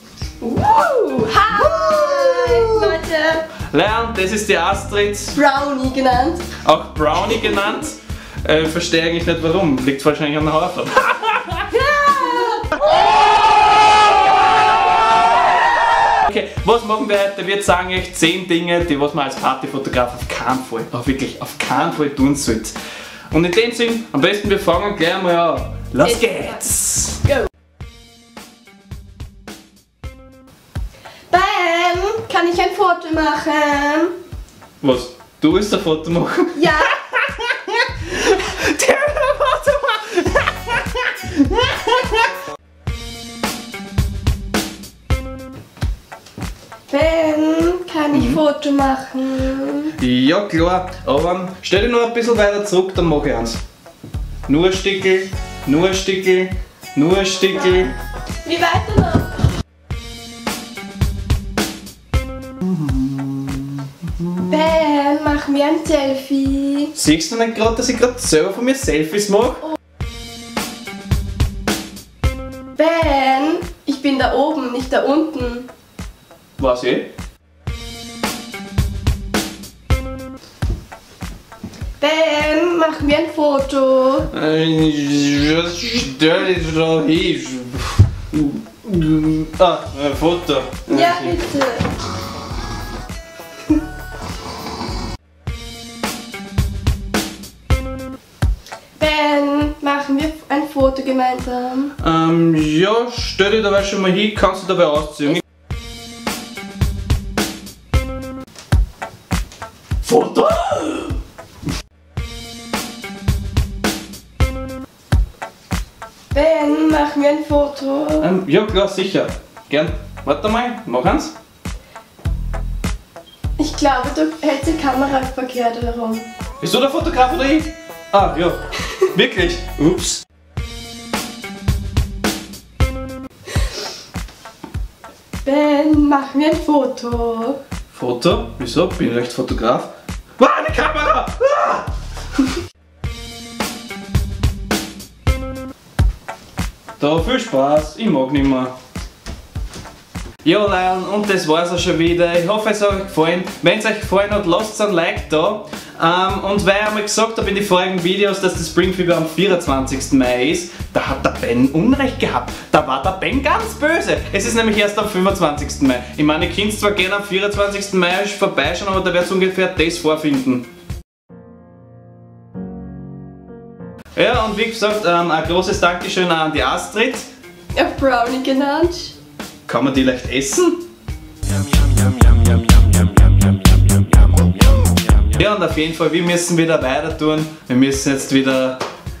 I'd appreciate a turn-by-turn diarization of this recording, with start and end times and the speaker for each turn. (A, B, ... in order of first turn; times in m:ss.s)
0:00.4-0:03.5 A
0:01.5-0:03.0 B
0:03.7-0:05.4 B
0:05.4-0:06.5 A
0:06.6-0:11.7 B
0:11.7-0:12.9 A
0:16.0-0:22.8 B
0:23.3-0:27.2 B
0:26.0-0:26.6 A
0:31.3-0:34.1 A
0:34.8-0:42.3 B
0:36.5-0:37.0 A
0:46.9-0:49.9 A
0:48.1-0:48.4 B
0:50.0-0:53.6 B
0:54.5-0:58.0 B
0:58.4-0:59.5 A
1:02.6-1:04.6 B
1:04.5-1:06.9 A
1:06.9-1:09.7 B
1:12.8-1:15.7 A
1:16.6-1:17.1 B
1:22.0-1:24.3 A
1:24.3-1:31.4 B
1:30.9-1:31.9 A
1:39.0-1:41.9 A
1:42.0-1:45.4 B
1:50.0-1:51.1 B
1:56.3-1:58.3 A
1:58.2-2:01.3 B
2:03.6-2:06.3 A
2:06.6-2:10.2 B
2:15.4-2:17.6 A
2:17.9-2:21.9 B
2:27.0-2:28.7 B
2:30.4-2:50.7 B
2:54.2-2:57.3 B
2:57.7-2:59.1 A
2:59.7-3:00.8 B
3:05.3-3:08.8 B